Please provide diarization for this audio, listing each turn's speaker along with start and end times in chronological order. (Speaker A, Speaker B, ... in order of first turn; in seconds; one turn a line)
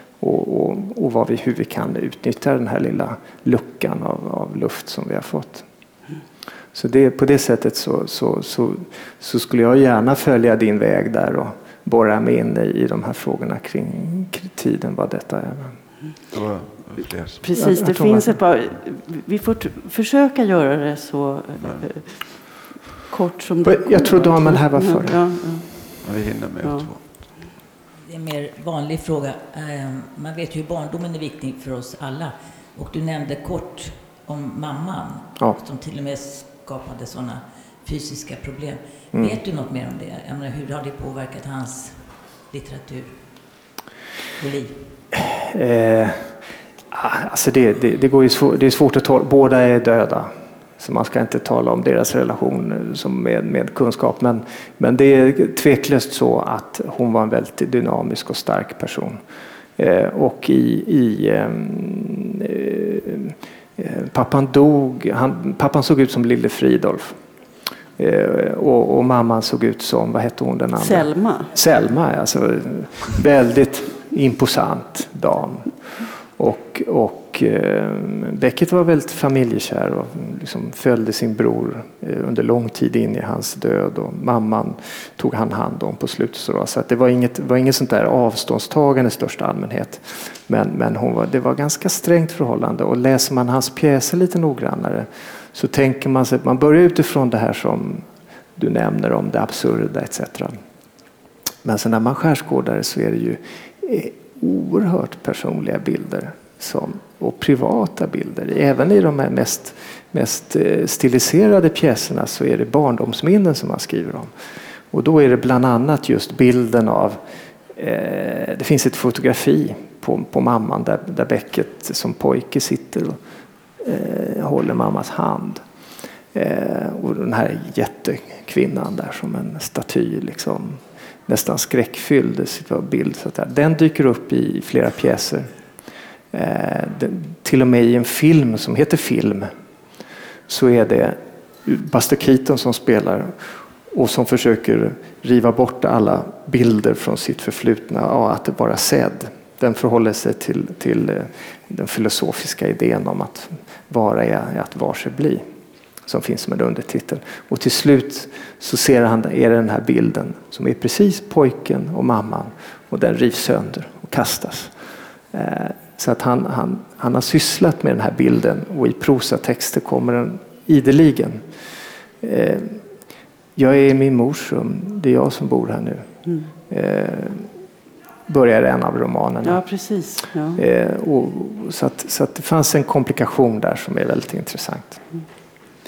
Speaker A: 0.2-5.7
Speaker A: 6.7-15.7
Speaker B: 16.3-17.4
Speaker C: 17.4-22.3
Speaker A: 17.5-18.4
Speaker C: 23.1-25.7
Speaker A: 23.6-25.2
Speaker B: 26.0-27.0
Speaker C: 26.6-26.9
Speaker D: 28.1-43.2
Speaker D: 44.4-44.9
Speaker A: 45.3-46.3
Speaker A: 46.9-59.2
Speaker A: 59.8-67.2
Speaker A: 68.0-100.5
Speaker C: 70.8-71.5
Speaker A: 101.6-114.3
Speaker A: 114.9-117.2
Speaker A: 117.7-123.2
Speaker A: 123.8-125.6
Speaker A: 126.3-135.5
Speaker A: 136.3-139.5
Speaker A: 140.5-155.4
Speaker A: 156.1-164.7
Speaker A: 165.3-171.5
Speaker A: 172.2-172.8
Speaker A: 173.6-176.1
Speaker A: 176.7-177.5
Speaker A: 178.3-179.6
Speaker C: 179.4-180.6
Speaker A: 180.6-185.0